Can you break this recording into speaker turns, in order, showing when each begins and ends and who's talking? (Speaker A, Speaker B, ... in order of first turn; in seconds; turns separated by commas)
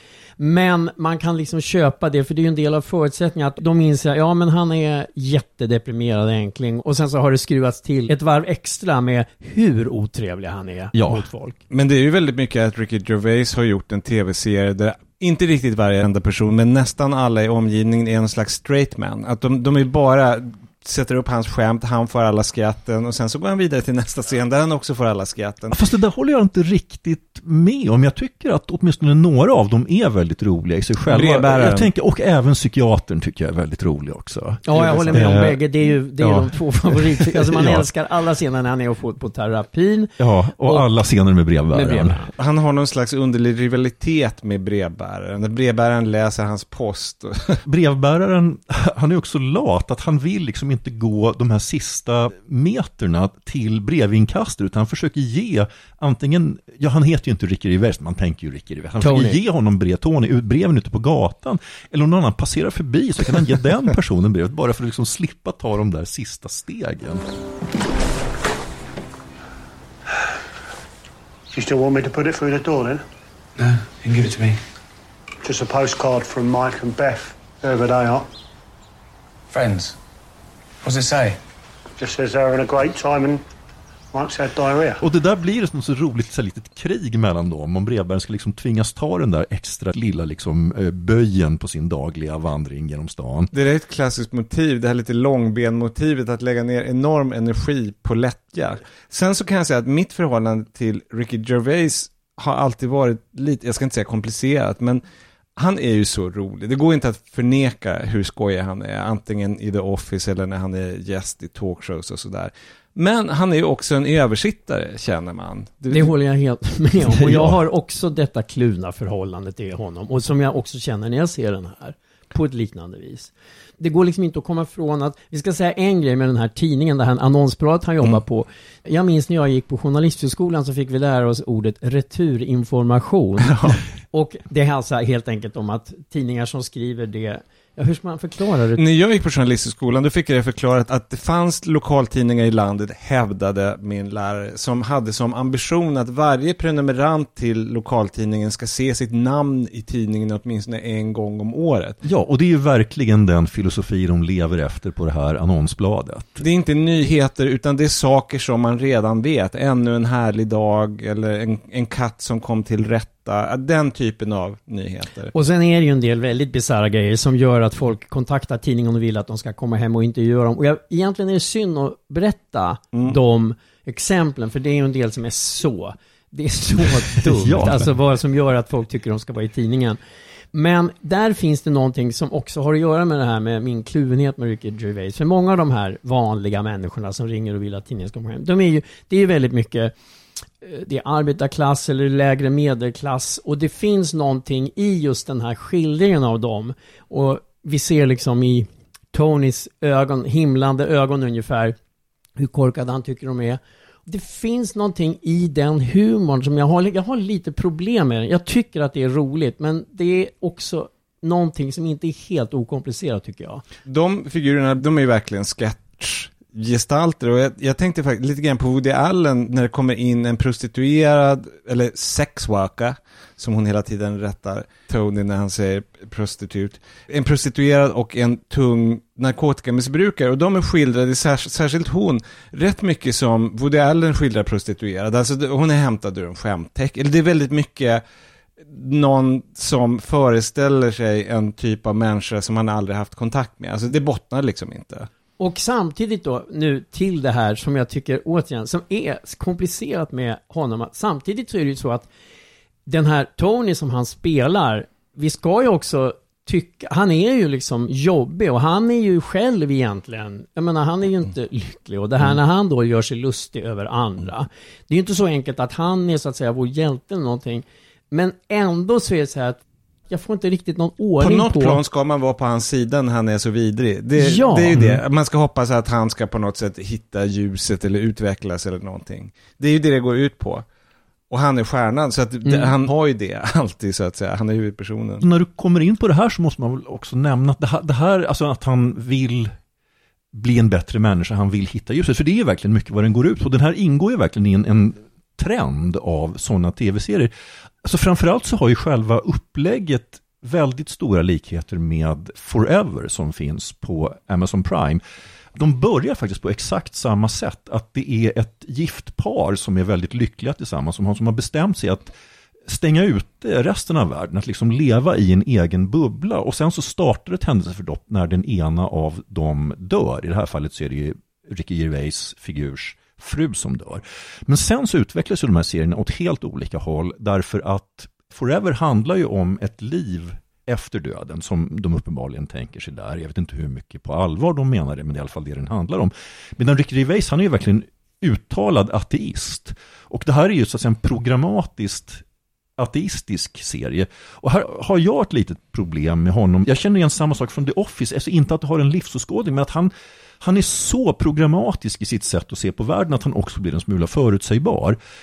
Speaker A: 0.4-11.6, Speaker B: 10.9-11.3, Speaker C: 11.7-25.8, Speaker B: 25.7-35.6, Speaker C: 31.1-31.9, Speaker A: 34.6-40.9, Speaker C: 34.8-35.3, Speaker B: 36.2-37.9, Speaker B: 40.2-42.2, Speaker A: 41.7-42.3, Speaker C: 42.4-47.6, Speaker B: 47.6-67.2, Speaker A: 59.0-59.4, Speaker D: 71.5-73.0, Speaker E: 73.6-74.6, Speaker D: 75.4-78.2, Speaker E: 79.5-80.0, Speaker E: 80.8-81.4, Speaker D: 82.0-83.4, Speaker D: 84.1-85.0, Speaker B: 85.0-93.5, Speaker C: 93.5-105.0, Speaker C: 105.5-116.1, Speaker A: 115.9-138.8, Speaker B: 117.1-117.6, Speaker C: 133.4-133.8, Speaker C: 138.8-152.0, Speaker B: 152.0-156.4, Speaker C: 156.4-165.3, Speaker A: 165.3-180.0, Speaker B: 177.2-177.9, Speaker A: 180.5-189.9, Speaker A: 190.6-201.8, Speaker A: 202.4-213.6, Speaker C: 213.8-238.0, Speaker C: 238.7-245.1, Speaker A: 245.4-252.1, Speaker A: 252.9-271.8, Speaker C: 271.2-280.6, Speaker A: 274.2-274.8, Speaker B: 274.7-275.0, Speaker C: 281.3-285.2, Speaker B: 285.2-289.5, Speaker B: 290.3-297.3, Speaker B: 297.8-305.0, Speaker B: 305.6-312.1, Speaker B: 312.7-342.2, Speaker B: 342.8-355.0